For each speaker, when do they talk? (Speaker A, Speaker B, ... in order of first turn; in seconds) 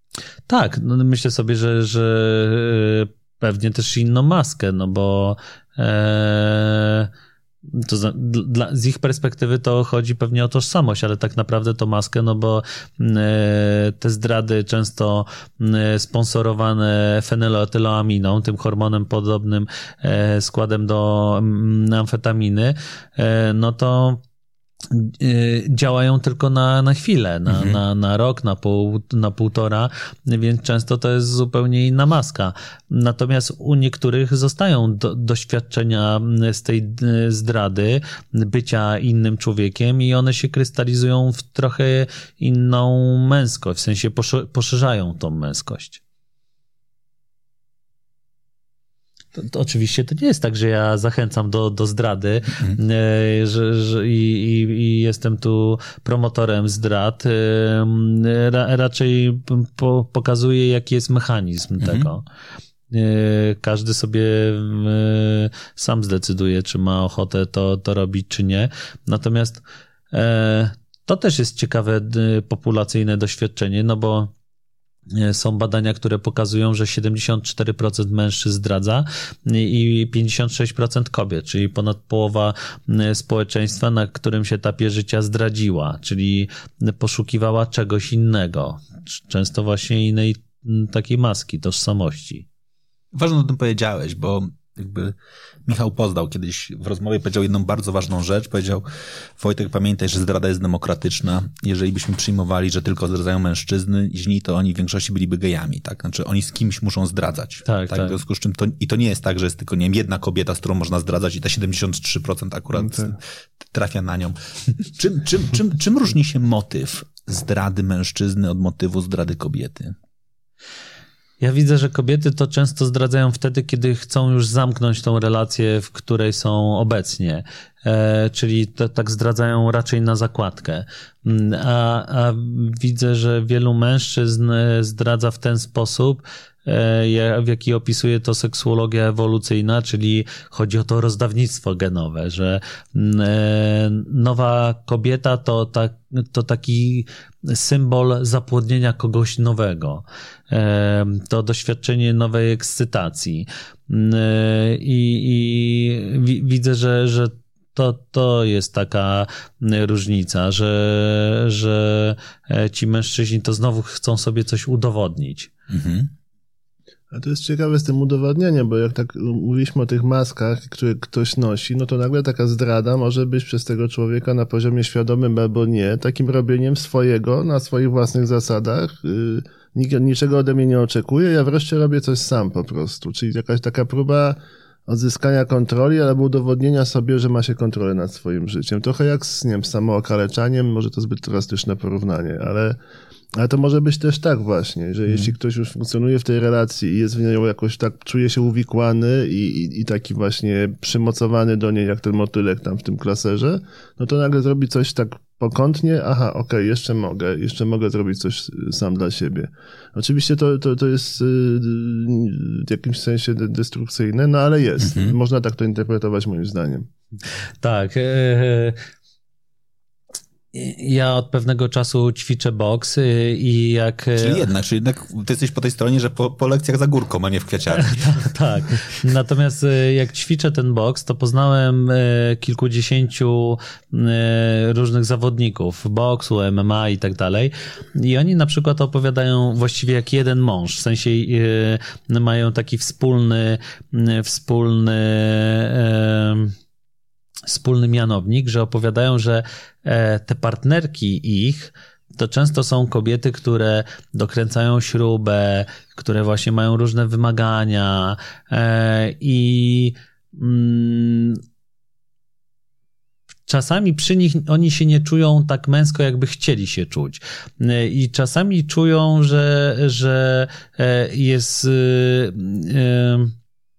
Speaker A: 0.5-7.1, 7.7-24.2, 24.9-46.0, 49.4-62.2, 62.9-74.3, 75.1-92.5, 107.7-108.2, 121.4-165.5, 217.6-218.8, 220.5-224.5, 227.7-246.5, 247.5-261.4, 263.5-273.4
Speaker B: 27.5-27.8, 61.8-62.1, 93.1-120.0, 165.7-166.1, 214.8-215.2, 224.2-228.0
Speaker C: 112.8-113.1, 167.1-192.8, 193.3-216.9